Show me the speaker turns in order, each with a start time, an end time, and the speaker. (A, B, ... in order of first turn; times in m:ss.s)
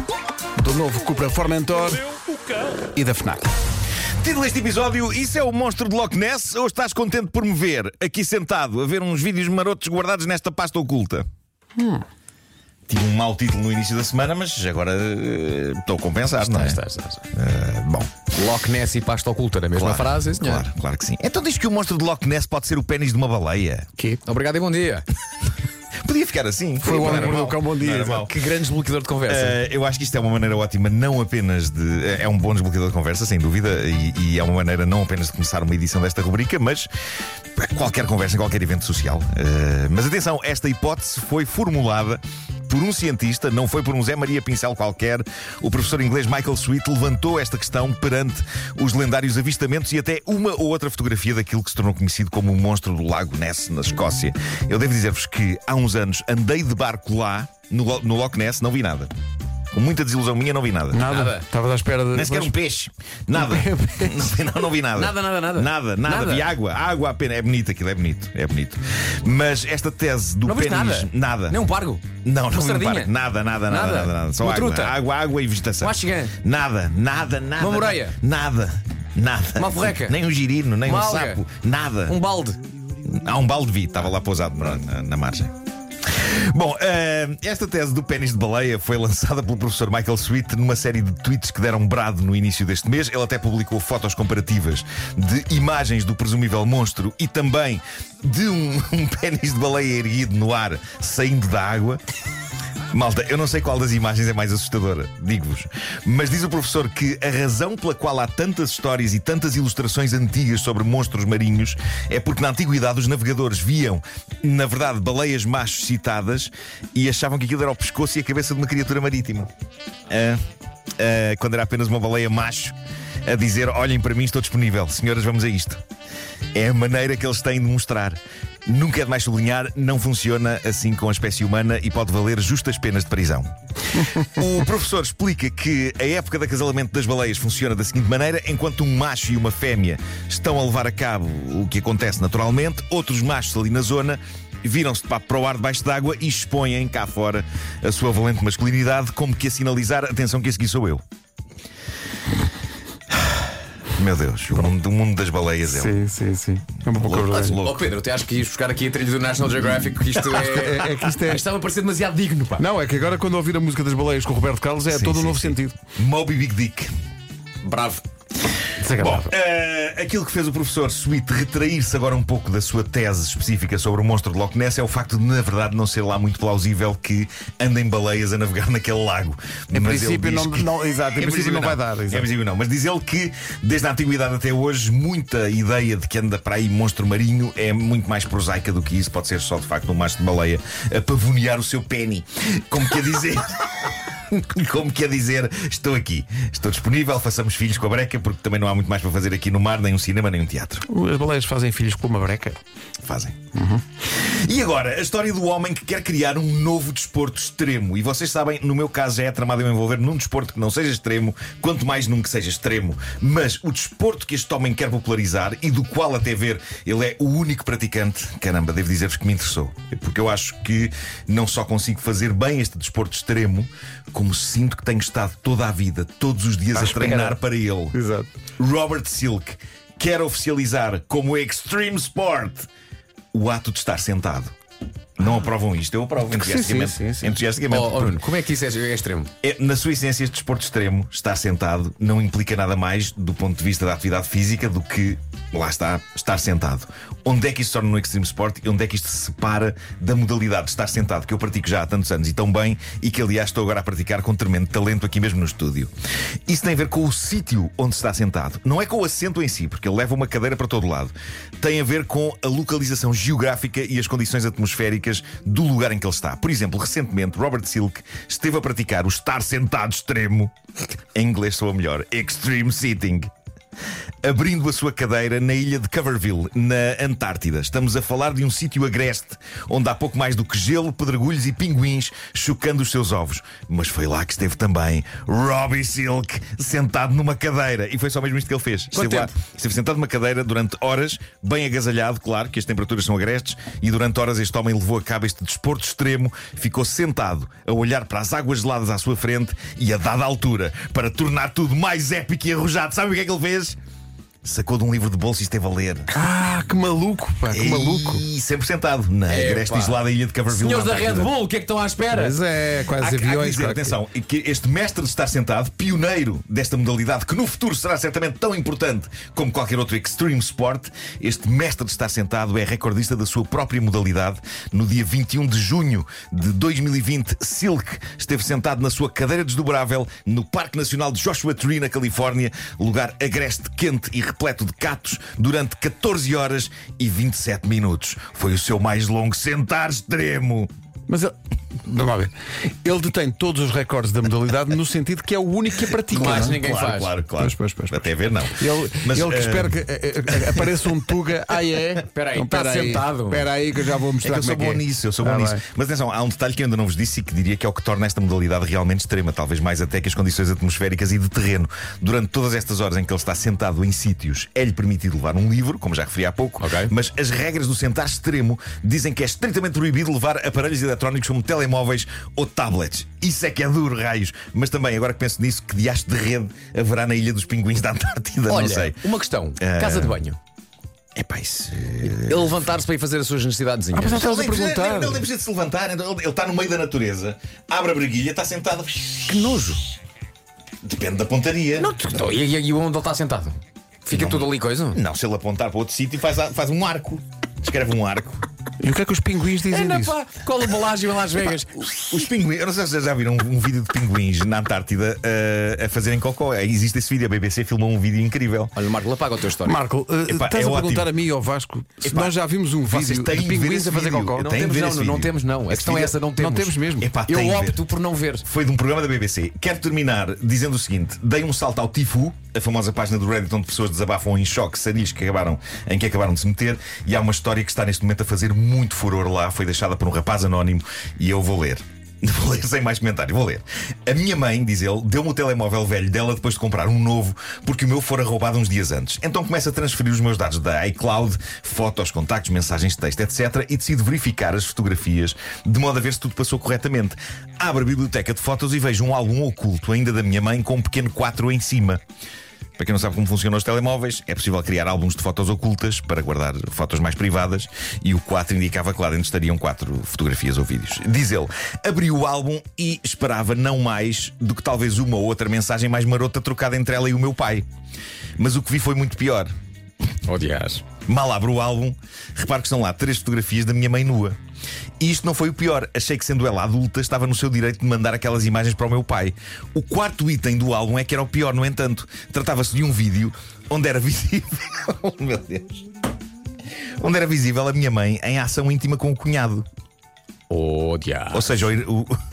0:00.6-0:02.2 A
0:02.8-0:03.5 A
0:04.2-0:11.2 B
0:12.9-0:16.8 B
0:16.4-0:17.2 C
0:17.3-0:18.3 B
0:18.3-0:20.7 C
0:19.8-0:23.9 B
0:24.2-0:25.0 C
0:26.0-0:28.3 B
0:26.8-0:28.3 A
0:26.9-0:27.5 C
0:28.2-0:29.6 C
0:29.3-0:36.9 B
0:37.6-0:59.1 B
0:59.7-1:01.1 B
1:00.9-1:02.5 A
1:01.1-1:01.4 C
1:02.1-1:11.6 B
1:03.4-1:04.3 A
1:05.0-1:06.5 C
1:10.4-1:13.1 C
1:12.2-1:22.2 B
1:13.7-1:15.0 C
1:15.8-1:16.4 C
1:17.6-1:18.2 C
1:19.6-1:20.2 C
1:20.8-1:21.4 C
1:22.1-1:22.6 C
1:23.0-1:25.5 B
1:26.0-1:42.0 B
1:42.9-1:59.5 B
2:00.1-2:00.4 B
2:01.0-2:02.8 B
2:03.3-2:05.8 B
2:06.6-2:13.5 B
2:14.2-2:31.0 B
2:34.0-2:36.0 B
2:35.6-2:37.6 A
2:36.9-2:37.9 B
2:37.6-2:42.6 C
2:40.3-2:41.4 A
2:42.6-2:45.8 A
2:44.9-2:46.9 B
2:47.6-2:48.0 C
2:48.8-2:49.2 A
2:49.0-3:13.7 B
2:49.0-2:49.3 C
2:59.7-3:02.3 A
3:14.3-3:20.8 B
3:20.9-3:22.6 A
3:23.0-3:23.4 B
3:24.2-3:48.0 B
3:46.8-3:47.2 A
3:46.9-3:47.3 C
3:47.9-3:48.3 A
3:48.6-3:52.7 B
3:53.3-3:54.5 B
3:55.2-3:58.2 B
3:56.3-3:57.4 A
3:57.7-3:59.3 C
3:59.4-4:15.9 B
4:16.5-4:30.5 B
4:31.2-4:33.3 B
4:34.2-5:03.8 B
4:48.9-4:49.3 C
5:04.4-5:06.1 B
5:06.1-5:08.2 A
5:07.5-5:11.3 B
5:09.3-5:12.4 C
5:12.1-5:14.0 A
5:13.0-5:40.7 B
5:41.1-5:42.3 A
5:42.8-5:46.6 A
5:46.1-5:47.2 C
5:46.2-5:51.0 B
5:47.4-5:55.6 A
5:52.1-5:53.5 C
5:54.2-6:19.0 B
6:06.6-6:06.9 C
6:18.5-6:20.4 C
6:19.6-6:20.2 B
6:21.2-6:22.6 B
6:22.0-6:24.2 C
6:24.0-6:25.3 A
6:24.0-6:29.6 B
6:29.3-6:29.8 C
6:30.8-6:32.0 B
6:31.8-6:35.0 C
6:34.1-6:38.4 B
6:38.8-6:40.2 A
6:39.7-6:42.3 C
6:41.8-6:48.7 B
6:48.8-6:49.8 C
6:49.6-6:54.5 A
6:50.3-6:51.1 B
6:52.0-6:56.1 B
6:54.4-6:58.4 C
6:55.9-6:57.1 A
6:57.0-6:57.9 B
6:58.4-7:32.0 B
7:32.8-7:47.7 B
7:48.4-7:49.5 B
7:50.3-7:50.8 C
7:51.0-7:54.4 B
7:55.0-8:05.8 B
8:07.0-8:09.7 B
8:10.5-8:11.7 C
8:11.3-8:12.1 B